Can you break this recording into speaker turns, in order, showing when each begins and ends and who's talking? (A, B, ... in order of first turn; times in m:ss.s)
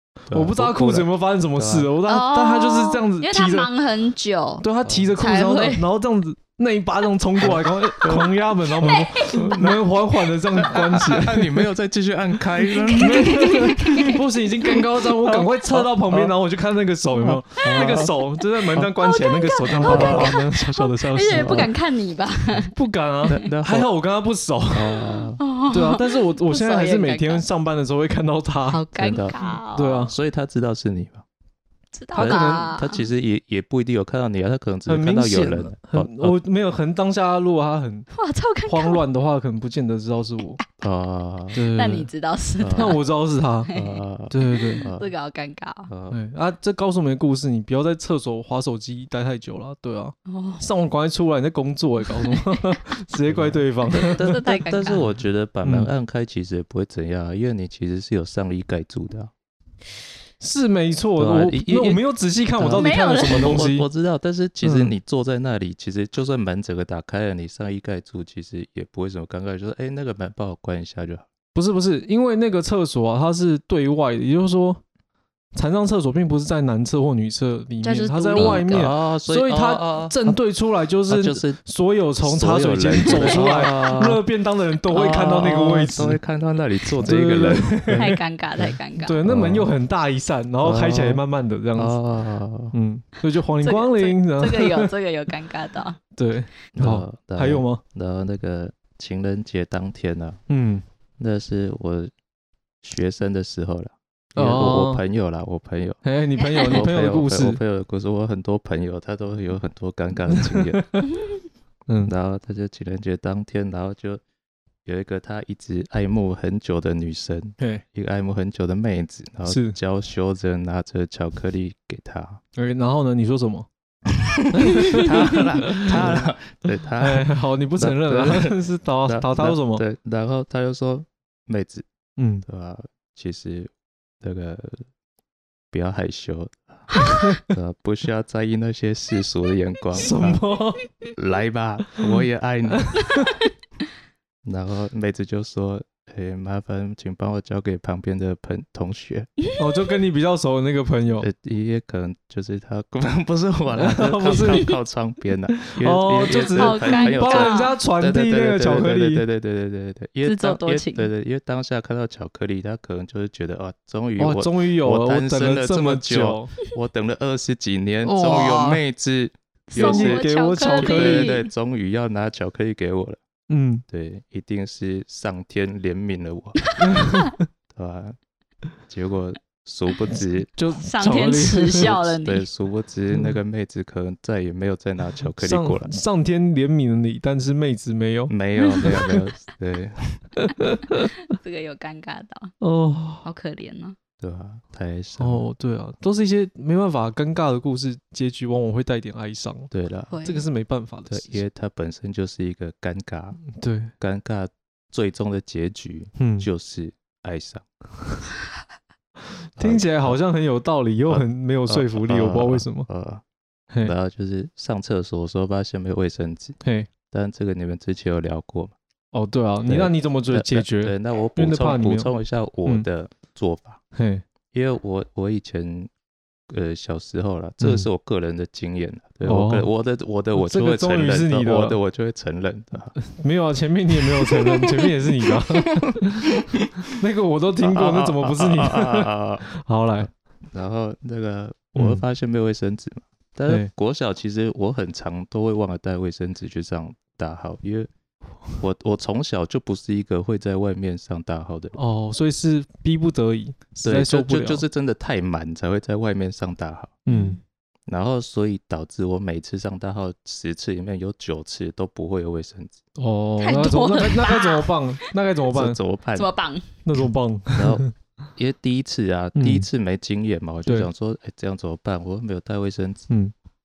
0:00.3-0:01.9 A
0:00.3-0:03.7 B
0:02.0-0:05.8 C
0:04.6-0:11.6 B
0:04.8-0:05.1 A
0:07.4-0:08.3 A
0:08.8-0:09.6 C
0:09.2-0:09.8 A
0:10.6-0:14.1 A
0:12.7-0:14.2 C
0:13.0-0:21.7 B
0:15.3-0:16.3 A
0:17.2-0:18.1 A
0:19.0-0:22.7 C
0:19.7-0:20.4 A
0:21.3-0:21.7 A
0:22.7-0:25.1 B
0:23.3-0:23.9 A
0:24.7-0:25.4 A
0:25.4-0:27.4 C
0:25.7-0:28.8 B
0:28.7-0:30.0 C
0:29.0-0:29.4 A
0:29.7-0:30.1 B
0:30.0-0:31.2 A
0:31.9-0:33.0 C
0:32.1-0:32.7 B
0:32.1-0:36.3 A
0:34.9-0:38.1 B
0:38.1-0:39.0 C
0:38.6-0:40.6 B
0:40.8-0:41.6 A
0:41.5-0:42.1 B
0:41.7-0:43.0 C
0:42.6-0:43.0 A
0:42.7-0:43.7 B
0:43.7-0:44.0 C
0:43.7-0:45.1 A
0:44.3-0:44.8 B
0:44.8-0:45.9 C
0:45.9-0:46.2 A
0:46.1-0:54.3 B
0:50.3-0:50.6 C
0:52.2-0:52.7 C
0:53.3-0:59.3 A
0:53.9-0:55.0 C
0:55.6-0:55.9 B
1:00.4-1:03.9 B
1:01.2-1:02.0 A
1:02.6-1:11.3 A
1:02.7-1:03.6 C
1:04.6-1:04.9 B
1:11.5-1:14.8 B
1:15.5-1:26.2 B
1:17.8-1:18.9 C
1:18.3-1:20.4 A
1:21.1-1:21.6 A
1:22.2-1:24.2 A
1:24.9-1:28.7 A
1:27.0-1:28.1 B
1:27.9-1:29.2 C
1:29.0-1:31.9 B
1:29.2-1:29.7 A
1:30.6-1:31.2 A
1:31.8-1:32.7 A
1:32.7-1:34.9 B
1:33.6-1:36.0 C
1:36.2-1:37.8 B
1:36.7-1:40.4 A
1:40.5-1:40.8 B
1:41.2-1:42.1 A
1:42.8-1:46.0 A
1:44.4-1:45.0 B
1:46.0-1:47.6 B
1:46.4-1:46.8 C
1:46.6-1:51.0 A
1:50.4-1:51.1 B
1:52.0-1:54.2 A
1:54.8-2:02.4 A
1:59.4-1:59.8 B
2:02.6-2:03.7 B
2:04.2-2:08.5 A
2:04.5-2:06.2 B
2:07.0-2:09.8 B
2:09.0-2:11.8 A
2:12.2-2:12.4 B
2:12.4-2:14.8 A
2:15.7-2:20.4 A
2:17.0-2:17.4 B
2:19.9-2:20.8 B
2:21.1-2:23.0 A
2:22.8-2:23.3 B
2:24.4-2:29.3 A
2:29.6-2:31.3 B
2:31.2-2:53.2 A
2:33.7-2:34.7 B
2:35.6-2:39.2 B
2:36.3-2:37.8 C
2:40.2-2:41.1 C
2:44.2-2:46.5 B
2:48.0-2:48.8 B
2:49.7-2:51.5 C
2:49.7-2:51.4 B
2:53.5-2:53.8 B
2:53.9-2:56.7 A
2:56.8-2:57.4 B
2:57.7-2:58.2 A
2:58.9-3:00.5 A
3:00.6-3:01.9 B
3:00.8-3:02.5 C
3:01.8-3:05.9 A
3:05.4-3:08.3 B
3:08.3-3:10.2 A
3:08.6-3:08.9 C
3:08.8-3:09.2 B
3:10.4-3:11.1 B
3:11.3-3:12.5 C
3:12.6-3:13.2 B
3:13.2-3:14.0 C
3:14.2-3:15.4 A
3:15.2-3:19.7 B
3:19.7-3:20.2 A
3:20.1-3:20.4 C
3:20.2-3:21.4 B
3:21.1-3:23.4 A
3:23.5-3:23.9 B
3:24.0-3:27.6 A
3:26.2-3:26.5 B
3:29.6-3:32.9 B
3:29.6-3:30.2 A
3:31.1-3:33.2 A
3:33.8-3:36.6 A
3:36.6-3:36.9 B
3:37.1-3:38.7 A
3:39.1-3:42.1 B
3:39.7-3:43.8 A
3:43.9-3:44.2 B
3:44.5-3:45.9 A
3:46.5-3:53.0 A
3:47.6-3:47.9 B
3:49.2-3:49.7 B
3:50.4-3:51.8 B
3:53.0-4:00.1 B
3:54.3-3:54.9 A
3:56.0-3:56.6 A
3:57.6-3:59.5 A
4:00.0-4:07.9 A
4:01.8-4:02.0 B
4:08.6-4:11.8 A
4:11.8-4:14.6 B
4:13.8-4:17.0 A
4:17.0-4:17.4 B
4:17.1-4:17.4 C
4:17.9-4:22.8 A
4:23.0-4:25.8 B
4:23.4-4:25.0 C
4:25.5-4:26.3 A
4:26.1-4:26.6 C
4:26.8-4:27.9 B
4:27.5-4:27.8 A
4:28.4-4:33.1 A
4:29.4-4:29.7 B